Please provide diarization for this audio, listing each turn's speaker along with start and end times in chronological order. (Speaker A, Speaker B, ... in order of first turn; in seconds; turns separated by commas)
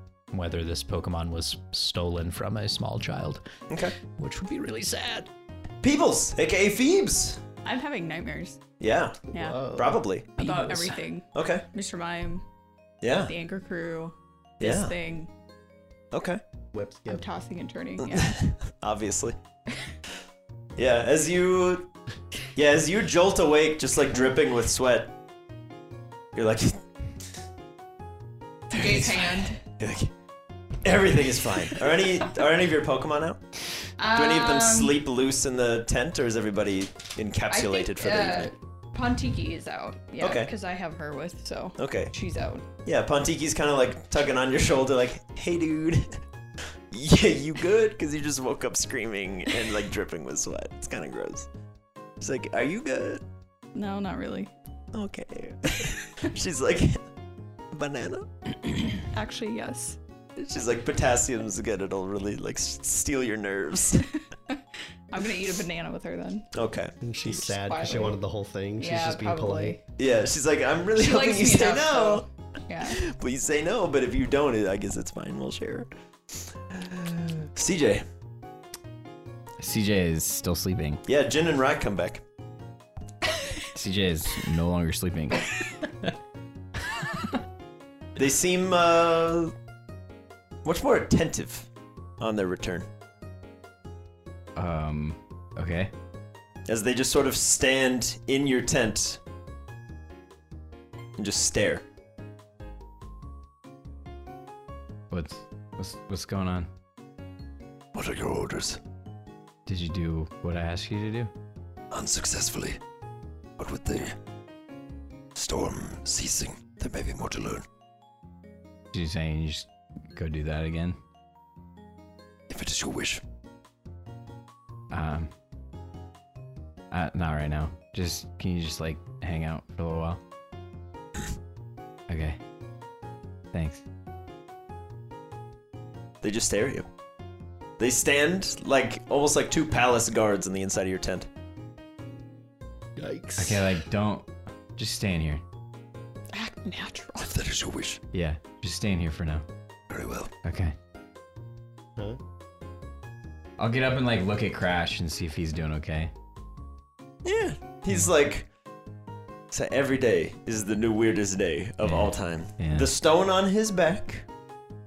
Speaker A: 0.3-3.4, Speaker B: 3.7-4.0, Speaker A: 4.2-5.3, Speaker B: 5.8-7.4, Speaker C: 7.7-8.6, Speaker B: 8.8-10.4, Speaker C: 9.3-9.7, Speaker D: 9.3-10.0, Speaker C: 10.4-12.4, Speaker A: 10.4-10.8, Speaker B: 11.3-11.6, Speaker B: 13.0-13.3, Speaker C: 13.2-15.3, Speaker B: 14.6-14.9, Speaker B: 16.1-16.4, Speaker D: 16.7-17.2, Speaker C: 17.1-18.4, Speaker B: 18.0-19.4, Speaker B: 20.8-21.9, Speaker B: 22.6-25.1, Speaker B: 26.3-26.8, Speaker C: 28.7-29.6, Speaker B: 28.7-30.1, Speaker B: 30.8-33.4, Speaker C: 34.0-35.0, Speaker B: 34.1-38.5, Speaker C: 37.5-42.7, Speaker B: 40.2-40.5, Speaker B: 41.8-42.1, Speaker B: 42.9-46.2, Speaker B: 46.9-51.5, Speaker B: 52.2-53.2, Speaker C: 53.7-54.5, Speaker B: 54.9-57.0, Speaker B: 57.7-58.8, Speaker C: 59.1-60.0, Speaker B: 60.4-64.0, Speaker C: 65.1-66.5, Speaker B: 66.5-67.4, Speaker D: 67.0-69.8, Speaker C: 67.5-68.2, Speaker C: 68.8-69.8, Speaker B: 70.0-72.2, Speaker C: 71.0-73.0, Speaker B: 72.8-75.9, Speaker B: 76.7-78.0, Speaker E: 79.6-81.0, Speaker B: 81.1-82.2, Speaker E: 83.7-85.9, Speaker B: 88.2-89.5, Speaker B: 90.6-91.7, Speaker B: 92.2-92.9, Speaker E: 94.6-95.9, Speaker B: 96.7-99.2, Speaker B: 101.2-101.8, Speaker E: 105.1-106.7, Speaker B: 107.9-108.8, Speaker E: 109.7-111.3, Speaker B: 111.9-112.8, Speaker B: 113.6-114.2, Speaker B: 115.3-117.7, Speaker E: 118.9-121.0, Speaker B: 122.5-123.2, Speaker E: 124.9-125.3, Speaker E: 126.9-130.2, Speaker E: 132.1-132.4, Speaker E: 133.5-133.8, Speaker B: 136.2-136.9, Speaker B: 137.8-141.3, Speaker D: 143.0-143.7, Speaker E: 143.4-145.4, Speaker C: 146.3-147.3, Speaker B: 147.2-148.0, Speaker E: 148.1-149.4, Speaker B: 149.9-150.3, Speaker E: 150.4-150.8, Speaker E: 153.6-156.1, Speaker B: 157.2-158.5, Speaker B: 159.5-164.3, Speaker E: 161.8-162.9